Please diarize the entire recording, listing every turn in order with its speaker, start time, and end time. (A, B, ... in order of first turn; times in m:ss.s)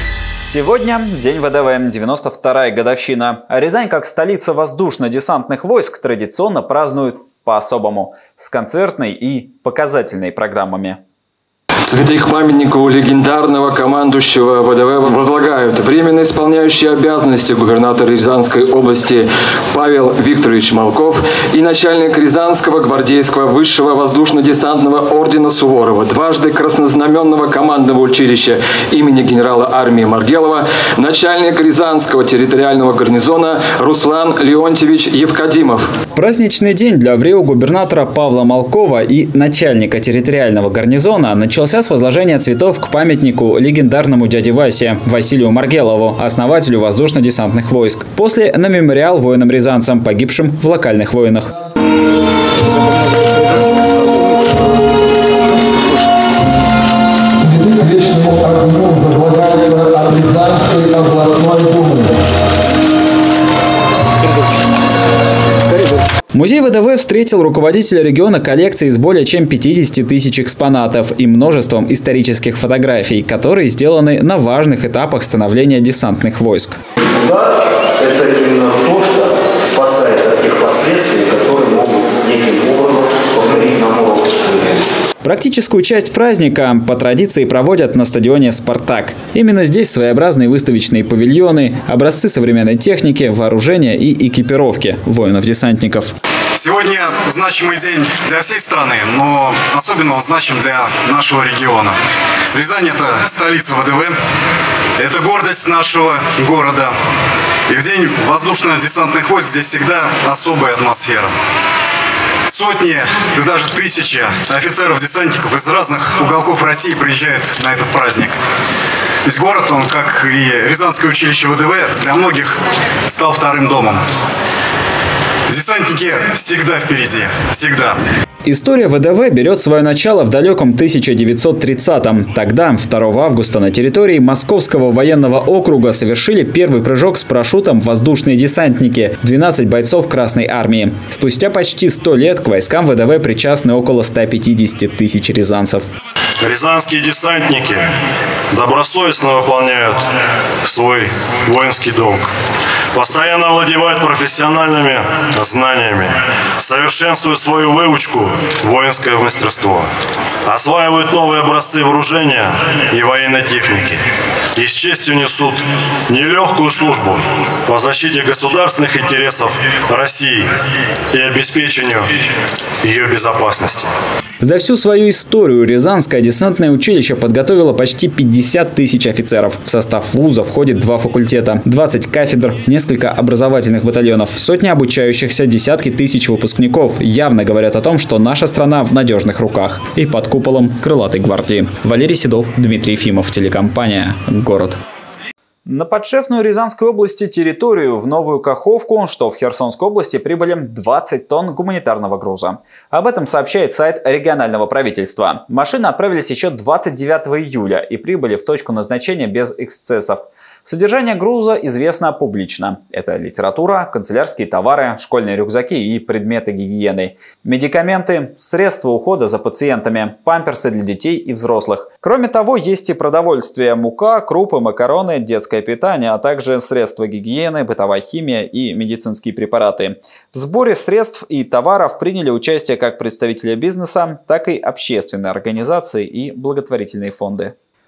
0:00.4-0:11.0 A
0:11.9-0:35.9 B
0:36.1-0:51.5 A
0:57.5-1:02.1 B
1:06.3-1:16.8 A
1:18.0-1:24.6 C
1:25.2-1:36.1 A
1:36.6-1:42.0 D
1:42.5-1:44.2 D
1:45.0-1:47.0 D
1:47.7-1:51.4 D
1:52.5-1:58.4 D
1:59.2-2:04.1 D
2:05.5-2:08.0 D
2:08.5-2:25.9 A
2:26.4-2:27.9 E
2:28.5-2:30.0 E
2:30.6-2:32.3 E
2:33.0-2:39.9 E
2:40.5-2:44.0 E
2:44.6-2:50.5 E
2:51.1-2:52.1 E
2:52.8-2:53.9 E
2:54.4-3:14.8 A
3:15.7-3:57.6 A